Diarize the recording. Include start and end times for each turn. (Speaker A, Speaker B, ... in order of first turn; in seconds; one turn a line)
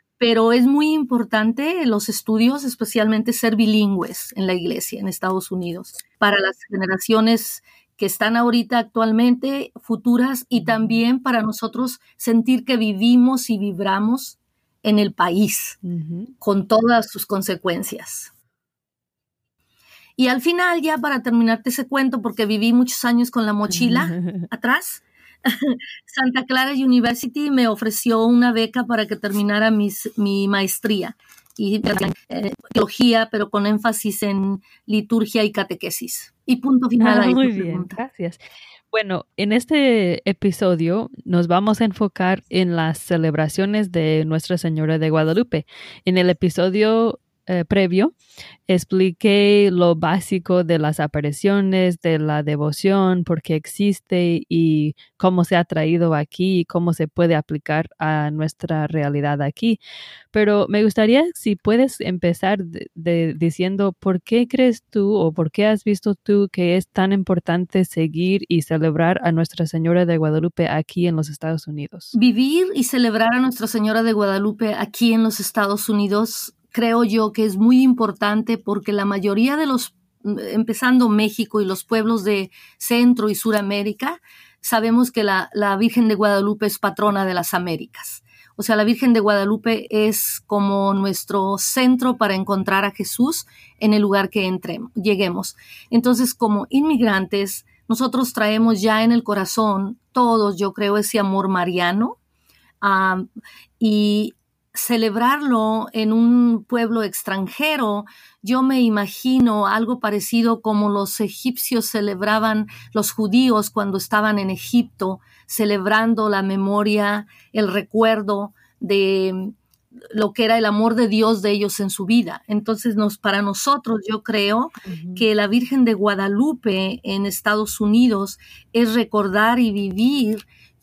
Speaker A: 0.2-15.8
Speaker B: 15.8-16.3
Speaker A: 16.4-18.3
Speaker A: 20.2-37.9
Speaker B: 23.7-24.5
Speaker B: 37.0-38.4
Speaker B: 38.9-48.1
Speaker B: 48.7-59.8
Speaker B: 60.3-72.1
Speaker A: 72.1-102.2
Speaker A: 102.8-103.3
Speaker A: 103.8-119.5
Speaker A: 120.1-130.4
Speaker B: 124.8-125.2